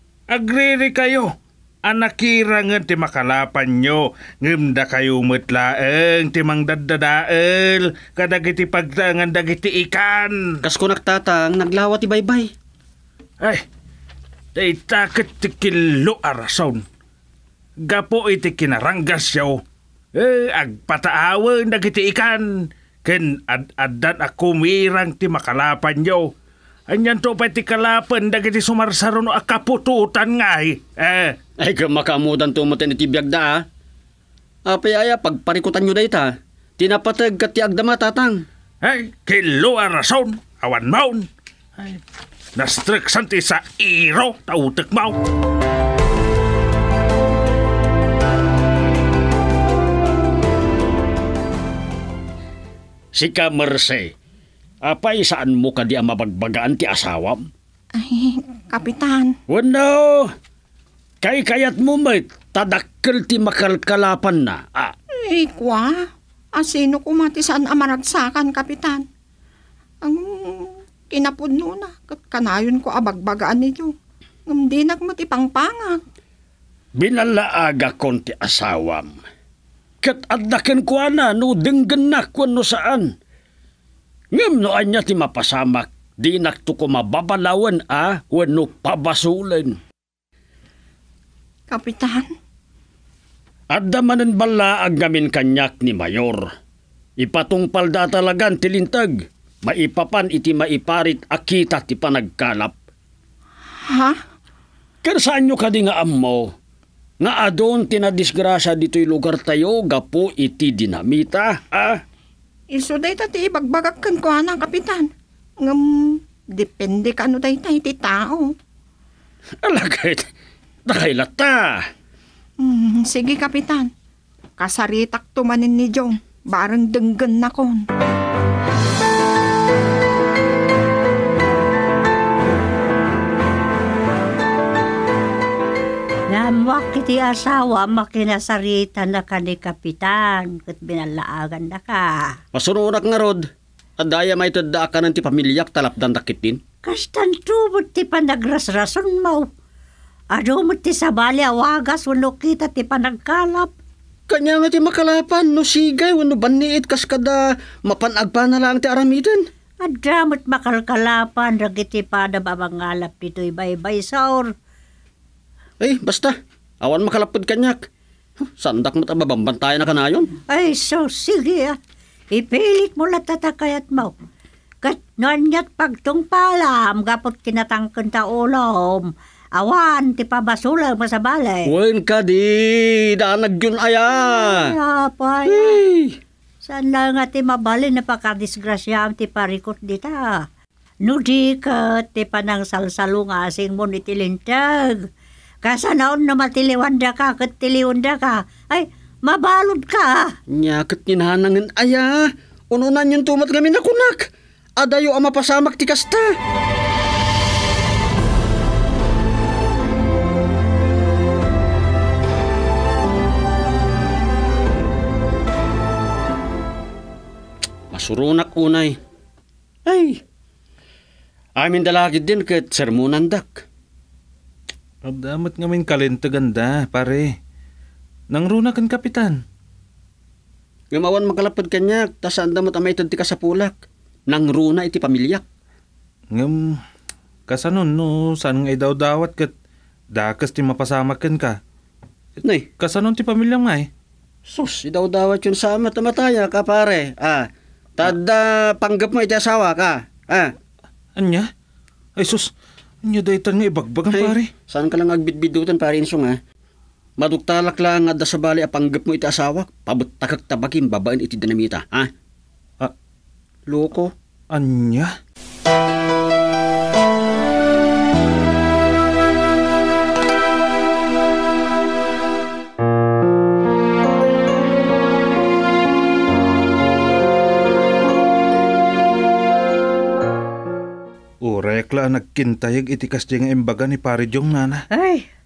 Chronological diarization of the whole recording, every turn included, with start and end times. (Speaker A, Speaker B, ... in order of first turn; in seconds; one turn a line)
Speaker A: 0.3-10.6
Speaker B: 10.6-12.5
Speaker A: 14.6-16.8
Speaker A: 17.9-19.6
Speaker A: 20.2-22.5
Speaker A: 23.1-26.3
Speaker A: 26.9-31.4
Speaker B: 31.6-33.7
Speaker B: 34.7-38.5
Speaker A: 38.8-41.3
Speaker A: 42.6-45.2
Speaker B: 53.1-54.1
Speaker B: 54.8-57.5
Speaker C: 58.0-59.4
Speaker B: 59.5-60.3
Speaker B: 61.2-64.9
Speaker C: 65.2-66.0
Speaker C: 66.5-69.0
Speaker C: 70.0-73.9
Speaker C: 74.5-76.0
Speaker B: 77.0-79.2
Speaker B: 80.0-83.1
Speaker B: 84.3-89.8
Speaker C: 91.7-92.3
Speaker B: 93.7-96.5
Speaker B: 97.2-102.8
Speaker C: 103.9-104.2
Speaker B: 105.0-106.5
Speaker B: 107.2-112.0
Speaker C: 112.7-115.1
Speaker C: 115.6-118.5
Speaker B: 119.6-120.3
Speaker B: 120.9-121.9
Speaker C: 122.6-123.9
Speaker C: 124.6-127.9
Speaker D: 136.3-142.4
Speaker B: 142.5-143.5
Speaker B: 144.0-146.6
Speaker D: 146.8-149.5
Speaker D: 150.3-153.7
Speaker B: 154.3-159.5
Speaker D: 159.8-164.5
Speaker B: 165.8-167.9
Speaker B: 168.4-170.4
Speaker D: 170.5-171.8
Speaker D: 172.3-174.2
Speaker D: 174.8-181.7
Speaker B: 181.7-184.8
Speaker D: 184.2-185.8
Speaker B: 185.5-186.2
Speaker D: 186.6-190.4
Speaker D: 191.0-195.1
Speaker D: 195.6-200.3
Speaker B: 200.5-206.3
Speaker B: 217.9-219.0
Speaker B: 219.9-220.2
Speaker B: 221.6-223.7
Speaker E: 225.0-227.4
Speaker E: 228.3-229.4
Speaker B: 230.9-235.4
Speaker E: 236.3-236.8
Speaker E: 237.5-239.5
Speaker E: 240.1-241.6
Speaker B: 242.4-242.7
Speaker E: 242.8-243.9
Speaker B: 244.5-250.5
Speaker E: 251.2-251.5
Speaker E: 252.2-252.5
Speaker E: 253.0-254.5
Speaker B: 254.1-256.4
Speaker B: 257.2-262.1
Speaker B: 263.7-264.1
Speaker E: 264.5-265.1
Speaker E: 281.4-284.9
Speaker D: 284.9-285.3